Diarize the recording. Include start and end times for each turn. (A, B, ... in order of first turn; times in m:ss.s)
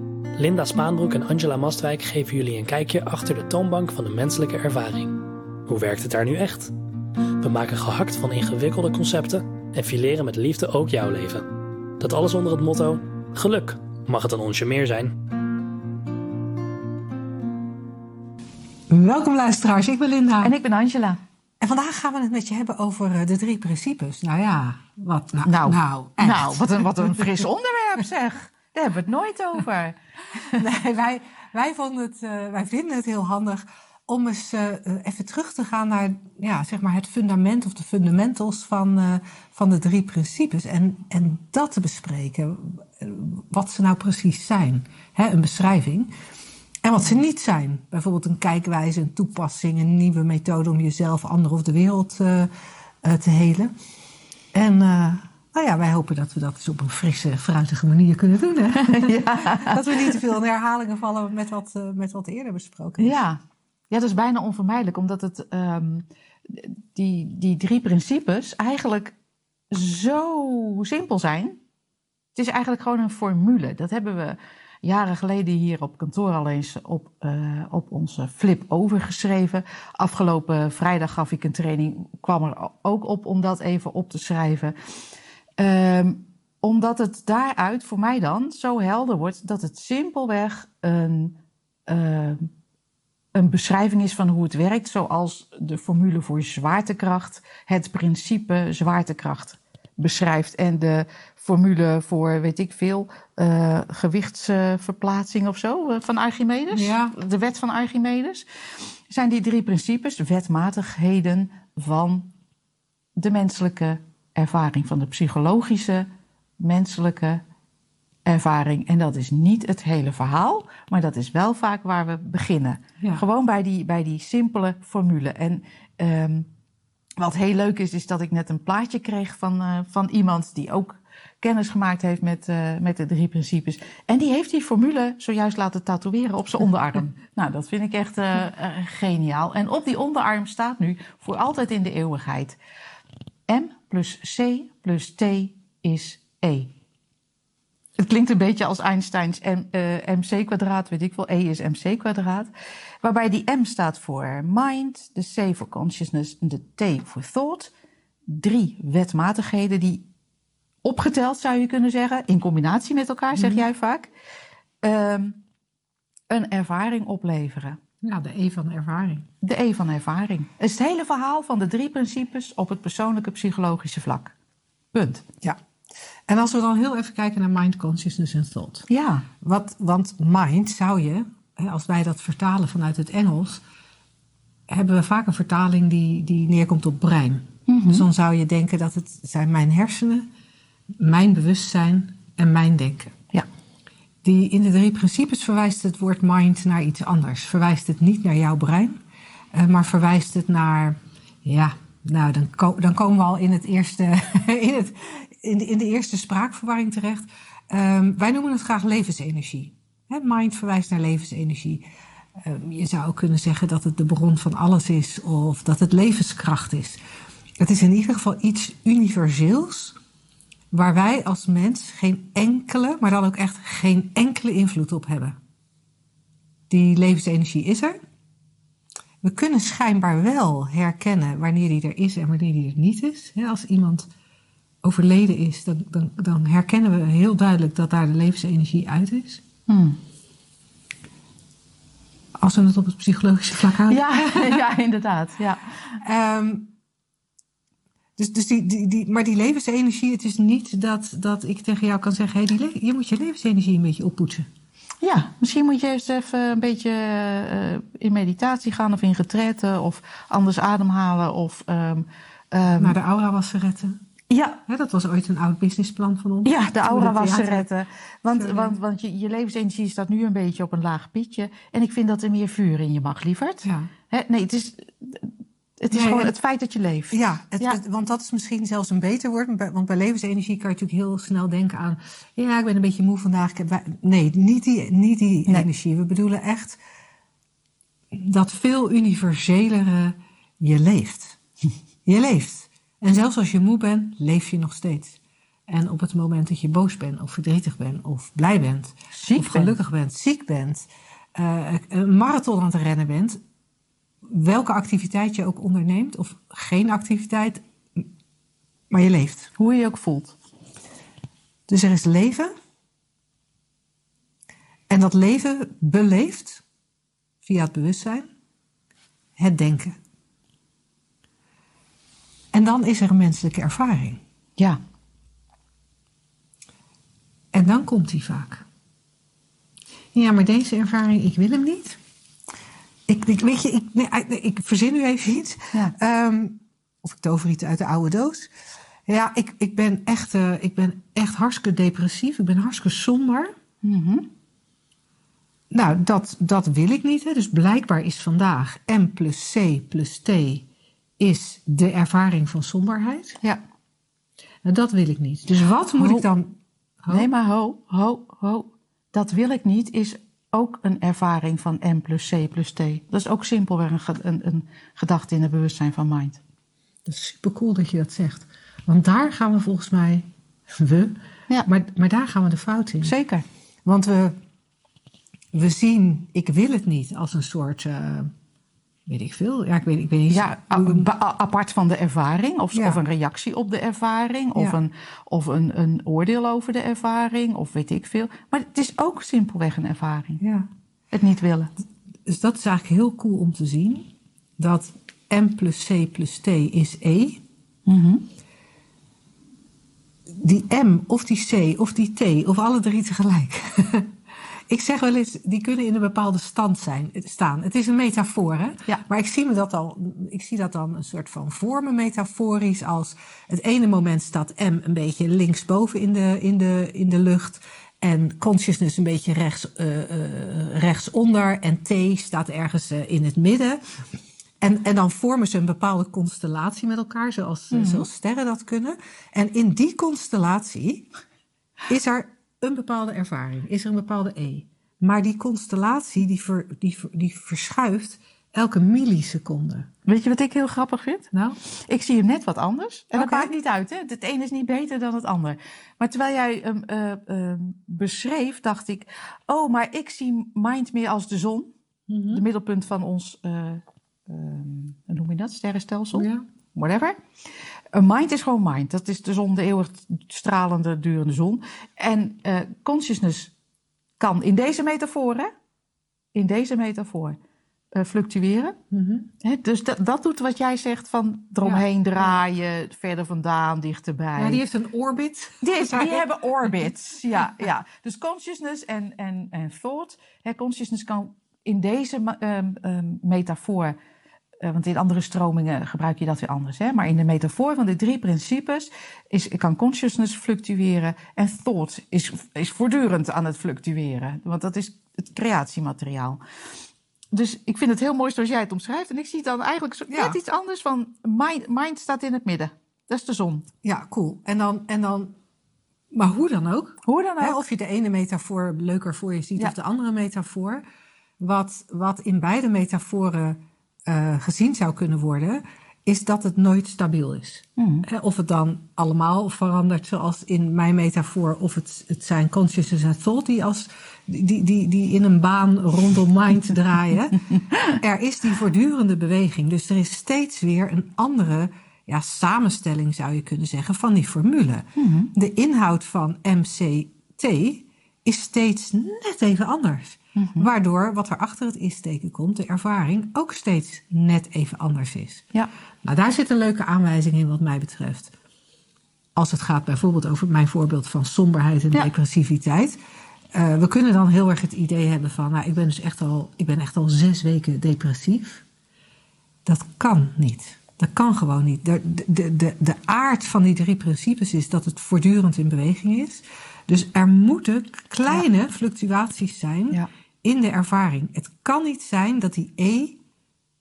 0:00.3-0:06.7 A
0:07.4-0:15.1 A
0:18.9-0:20.5 B
0:20.4-0:21.2 C
0:21.6-0:27.3 B
0:25.4-0:30.6 C
0:30.5-0:46.1 B
0:46.8-0:52.5 B
0:53.0-0:53.7 B
0:54.5-1:03.2 B
0:58.8-1:00.2 C
1:03.0-1:09.1 C
1:09.7-1:11.6 C
1:12.3-1:24.7 C
1:25.6-1:32.5 C
1:33.3-1:48.4 C
1:46.7-1:47.1 B
1:49.1-1:52.3 C
1:53.2-1:56.1 C
1:56.6-1:57.4 C
1:58.2-2:06.5 C
2:07.2-2:22.6 C
2:23.5-2:26.7 C
2:28.0-2:32.5 C
2:33.0-2:37.7 C
2:38.3-2:40.0 C
2:40.8-2:44.1 C
2:43.3-2:43.6 B
2:44.8-2:45.4 C
2:46.3-2:47.8 C
2:48.0-2:49.3 B
2:49.4-2:54.3 C
2:54.9-2:55.2 C
2:56.3-2:58.8 B
2:58.9-2:59.3 C
2:59.4-3:03.6 B
3:04.7-3:10.3 B
3:07.7-3:08.0 C
3:11.0-3:13.1 B
3:14.2-3:19.0 B
3:19.5-3:31.8 B
3:32.4-3:37.0 B
3:37.6-3:40.0 B
3:40.7-3:45.4 B
3:46.7-3:48.0 B
3:49.2-3:54.1 B
3:54.8-3:59.4 B
3:59.7-4:00.0 C
4:02.4-4:04.6 B
4:03.9-4:05.6 C
4:06.0-4:06.7 B
4:08.2-4:14.5 B
4:15.0-4:23.0 C
4:22.8-4:24.0 B
4:24.3-4:24.6 C
4:24.7-4:27.7 B
4:26.4-4:37.8 C
4:28.4-4:28.8 B
4:33.6-4:33.9 B
4:35.9-4:36.3 B
4:37.1-4:46.8 B
4:48.1-4:51.4 B
4:52.0-5:03.4 B
4:59.1-4:59.8 C
5:04.3-5:08.1 B
5:08.9-5:09.5 B
5:09.6-5:10.3 C
5:11.7-5:12.5 B
5:14.9-5:16.6 B
5:17.4-5:18.3 B
5:19.4-5:20.0 B
5:22.5-5:24.2 B
5:27.5-5:28.6 B
5:30.1-5:32.0 B
5:33.1-5:38.5 B
5:39.1-5:43.5 B
5:43.8-5:44.3 C
5:45.7-5:50.6 B
5:51.2-5:53.4 B
5:54.6-5:57.3 B
5:56.0-5:56.2 C
5:57.1-6:06.4 C
6:07.0-6:13.1 B
6:13.0-6:13.4 C
6:13.8-6:14.4 B
6:15.5-6:18.3 B
6:19.0-6:21.1 B
6:20.3-6:30.4 C
6:22.7-6:23.0 B
6:30.4-6:30.7 B
6:31.1-6:31.7 C
6:32.2-6:37.4 B
6:37.9-6:38.2 C
6:40.3-6:44.1 B
6:44.7-7:03.8 B
7:04.6-7:11.1 B
7:07.7-7:08.0 C
7:11.9-7:19.9 B
7:20.0-7:31.7 C
7:21.3-7:21.6 B
7:23.1-7:23.5 B
7:32.1-7:32.4 B
7:32.3-7:37.2 C
7:36.1-7:36.4 B
7:37.9-7:43.5 C
7:44.2-7:45.5 C
7:46.3-7:47.4 C
7:47.9-7:48.8 C
7:48.9-7:49.3 B
7:49.4-7:54.6 C
7:54.4-7:56.9 B
7:55.6-8:04.0 C
8:04.6-8:16.4 C
8:17.3-8:23.7 C
8:23.8-8:25.3 B
8:26.1-8:30.8 B
8:27.0-8:27.6 C
8:31.4-9:05.4 B
8:37.8-8:38.0 C
8:55.0-8:55.3 C
9:00.4-9:00.7 C
9:06.0-9:08.3 B
9:09.3-9:13.0 B
9:13.5-9:18.6 B
9:19.6-9:33.2 B